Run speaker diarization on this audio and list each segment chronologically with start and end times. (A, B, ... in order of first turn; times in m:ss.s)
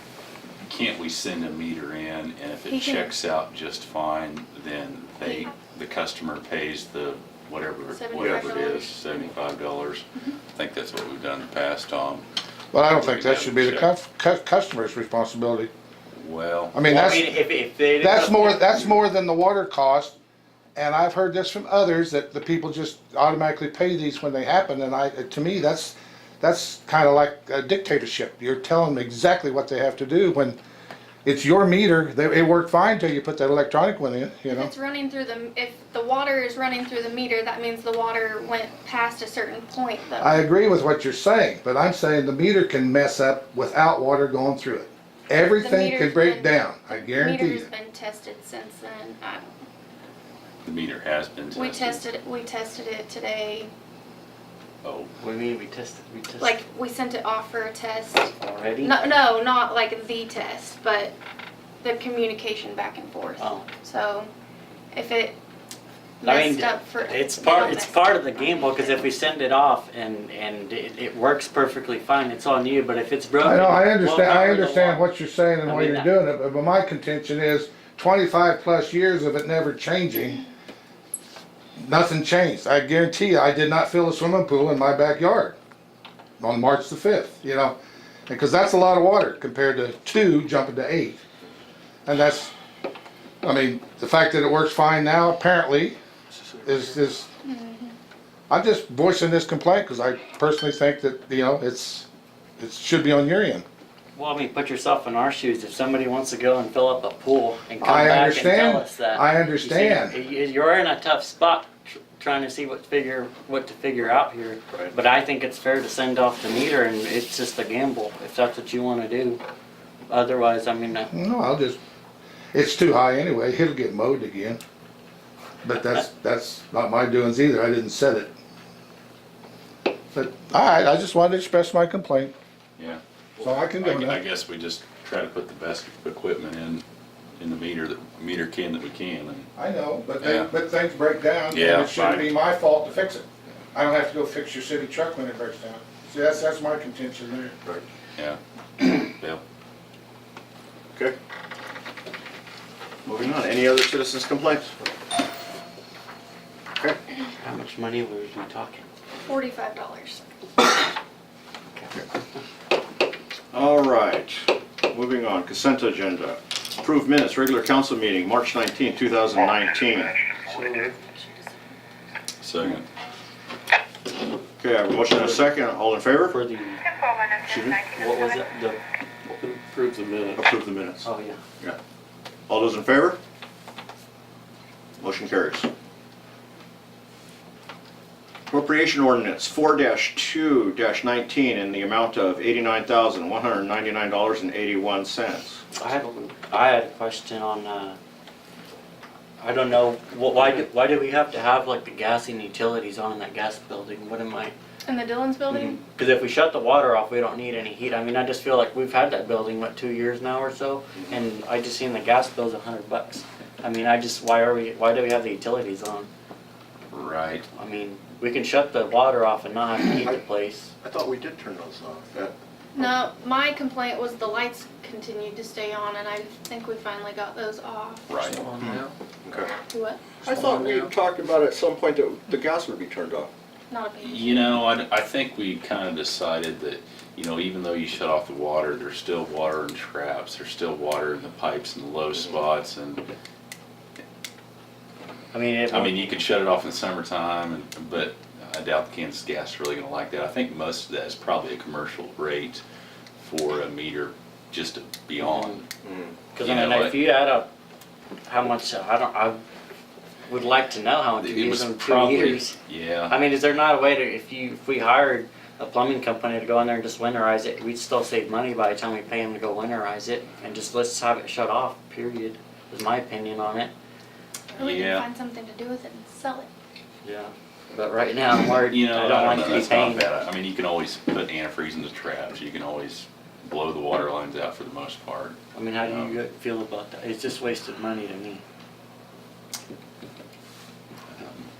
0:00.6-0:12.2 A
0:02.7-0:03.1 B
0:05.2-0:05.5 B
0:07.9-0:08.9 B
0:08.2-0:08.6 C
0:12.7-0:15.7 D
0:12.9-0:13.9 A
0:16.1-0:16.8 A
0:16.7-0:17.4 D
0:16.9-0:19.0 E
0:18.0-0:20.1 D
0:20.7-0:30.6 D
0:31.2-0:34.7 D
0:34.5-0:40.4 B
0:40.2-0:47.7 D
0:45.6-0:49.6 B
0:50.6-0:52.0 A
0:51.5-0:53.7 B
0:54.8-0:55.1 A
0:55.2-0:56.6 E
0:56.4-1:01.2 B
0:58.4-0:58.9 E
1:01.8-1:04.3 B
1:03.4-1:03.7 E
1:04.9-1:05.4 B
1:06.2-1:09.1 B
1:06.2-1:15.0 E
1:13.4-1:20.4 D
1:15.6-1:16.1 E
1:21.8-1:25.6 D
1:26.4-1:27.8 D
1:28.3-1:31.2 D
1:32.0-1:32.5 D
1:33.4-1:36.0 D
1:36.6-1:37.3 D
1:37.4-1:37.9 B
1:38.5-1:42.0 D
1:42.6-1:43.6 D
1:44.1-1:59.4 E
1:47.8-1:50.2 D
2:00.1-2:01.1 E
2:01.1-2:01.8 D
2:02.5-2:04.6 D
2:05.6-2:08.3 D
2:10.1-2:12.3 D
2:12.8-2:16.8 A
2:13.4-2:14.2 D
2:17.4-2:19.5 A
2:19.6-2:27.5 D
2:20.2-2:20.5 A
2:21.5-2:22.3 A
2:28.2-2:29.4 A
2:33.0-2:34.7 F
2:37.4-2:38.9 E
2:39.2-2:40.2 B
2:41.8-2:42.0 E
2:43.5-2:50.2 F
2:50.4-2:51.0 C
2:52.4-2:52.8 A
2:54.6-2:56.4 F
2:56.3-2:56.8 E
2:57.4-2:57.8 F
2:57.9-2:58.8 E
2:59.3-3:00.4 C
3:00.4-3:01.0 F
3:01.0-3:01.4 E
3:02.5-3:03.2 F
3:05.0-3:05.7 F
3:08.5-3:15.6 F
3:15.7-3:18.0 E
3:19.4-3:24.5 E
3:24.9-3:25.8 B
3:25.5-3:36.1 E
3:36.9-3:37.5 A
3:37.5-3:40.7 E
3:40.8-3:42.3 F
3:42.8-3:48.1 B
3:48.1-3:48.8 A
3:48.6-3:49.6 F
3:49.6-3:50.2 B
3:50.2-3:53.3 F
3:53.7-3:54.6 B
3:54.0-4:03.0 A
4:05.3-4:06.1 E
4:05.7-4:12.6 A
4:13.2-4:15.6 A
4:15.2-4:15.6 E
4:15.8-4:16.1 F
4:16.3-4:17.5 E
4:16.4-4:17.0 A
4:18.3-4:19.4 E
4:20.3-4:22.6 E
4:21.2-4:23.2 A
4:23.1-4:33.7 E
4:34.6-4:36.5 B
4:34.6-4:35.0 A
4:37.0-4:40.1 E
4:38.6-4:46.2 A
4:45.5-4:48.4 E
4:51.1-4:51.5 A